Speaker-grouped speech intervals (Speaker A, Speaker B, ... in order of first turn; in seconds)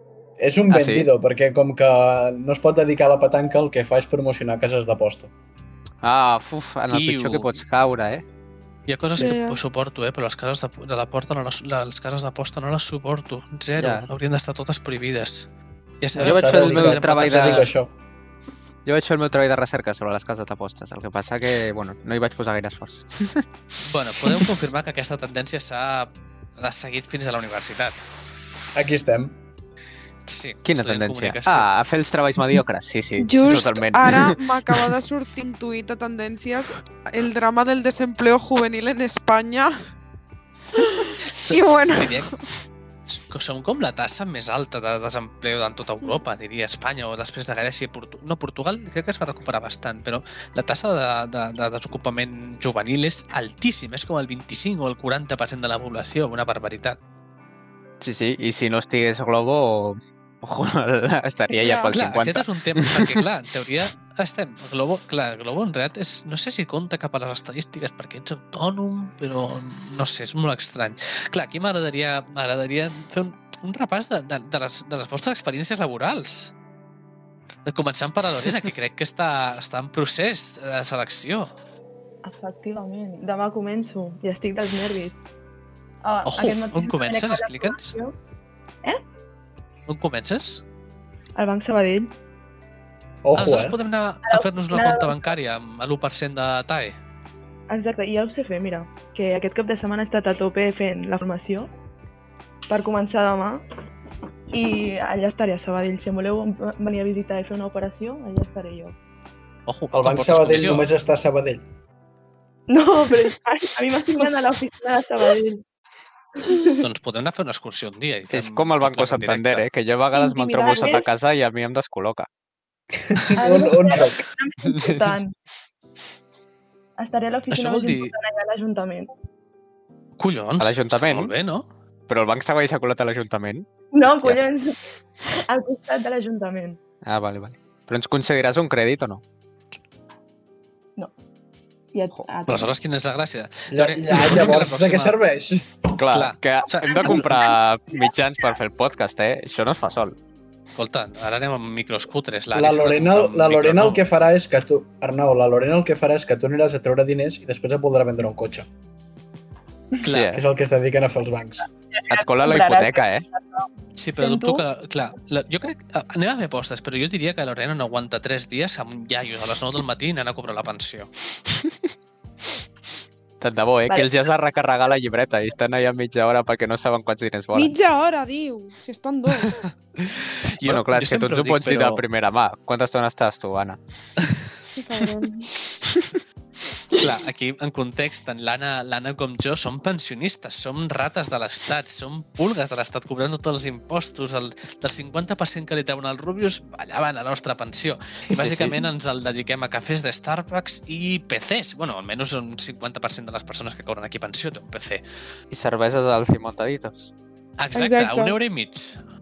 Speaker A: 0.4-5.3, 16.1-17.9, 28.7-29.3, 93.2-93.8, 109.9-111.7, 123.0-124.2, 143.7-146.0, 152.5-158.7, 160.3-161.7
Speaker B: 0.7-1.1, 6.0-8.2, 13.8-14.1, 16.2-17.7, 18.8-23.4, 30.6-34.9, 58.0-63.1, 118.3-122.3, 124.6-125.2, 130.6-131.3, 132.1-134.4, 137.0-139.2, 145.9-150.2, 160.0-160.4, 162.1-163.2, 173.4-177.7, 180.6-183.8, 198.3-198.8, 205.5-207.1
Speaker C: 6.9-7.6, 8.9-15.5, 16.0-17.7, 23.8-28.0, 30.3-31.7, 41.2-42.3, 43.1-57.0, 61.9-76.5, 77.7-81.5, 86.2-88.0, 89.9-90.6, 93.4-97.0, 109.7-110.9, 116.8-119.7, 127.5-128.1, 130.2-131.7, 142.5-145.2, 146.1-147.3, 150.8-154.0, 160.0-160.4, 164.0-171.1, 179.4-182.0, 186.9-205.0, 207.6-209.0
Speaker D: 9.2-9.6, 33.2-39.8, 40.8-42.4, 61.6-61.9, 120.1-121.1, 177.5-179.6, 184.8-185.5, 207.7-208.4
Speaker E: 82.2-85.2, 86.0-88.1, 91.4-92.1, 94.2-95.3, 97.7-101.7, 102.7-103.6, 104.5-108.9, 112.7-115.6, 116.4-116.8, 120.6-121.0, 123.4-125.3, 127.0-129.1, 133.9-136.8, 141.9-142.7, 161.9-163.7, 164.2-164.6